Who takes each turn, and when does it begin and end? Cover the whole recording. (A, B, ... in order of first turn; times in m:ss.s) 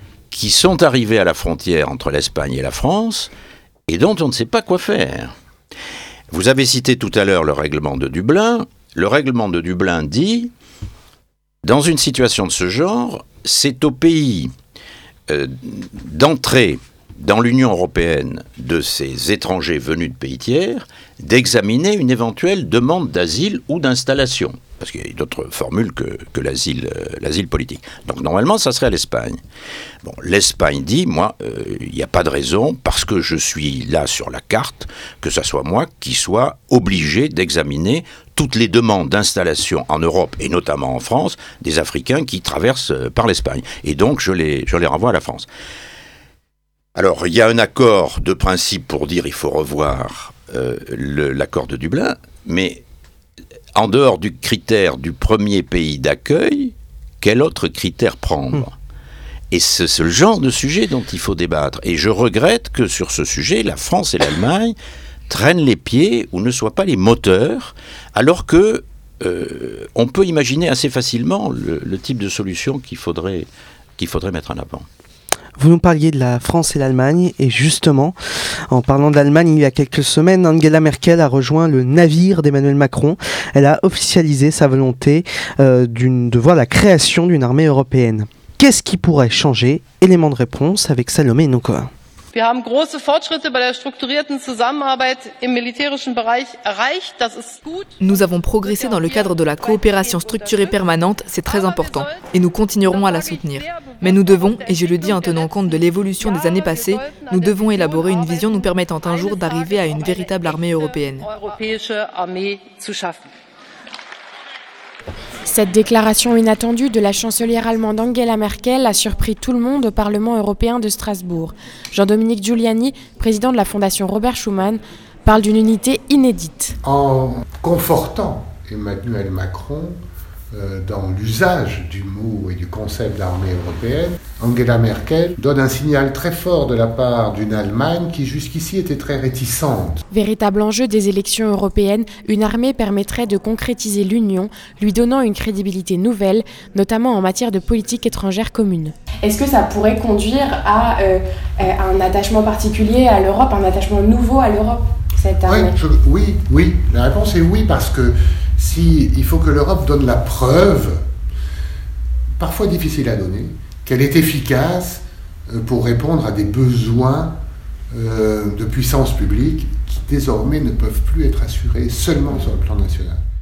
0:00.3-0:03.3 A
0:03.9-0:05.3 A
0:06.3-0:10.5 A
0:11.6-0:14.5 A
0:15.3-0:29.4 A
0:30.0-0:45.5 A
0:47.0-0:52.8 A
0:53.7-0:58.7 A
0:59.5-1:04.8 A
1:05.3-1:14.9 A
1:15.6-1:18.2 B
1:18.7-1:31.9 B
1:32.3-1:37.9 C
1:38.0-1:51.3 D
1:38.6-1:40.9 C
1:41.5-1:42.3 C
1:42.8-1:53.2 C
1:55.4-2:06.8 E
2:06.8-2:10.0 F
2:10.5-2:20.0 F
2:20.1-2:35.7 E
2:35.4-2:41.0 F
2:42.4-2:47.4 F
2:47.9-2:53.2 F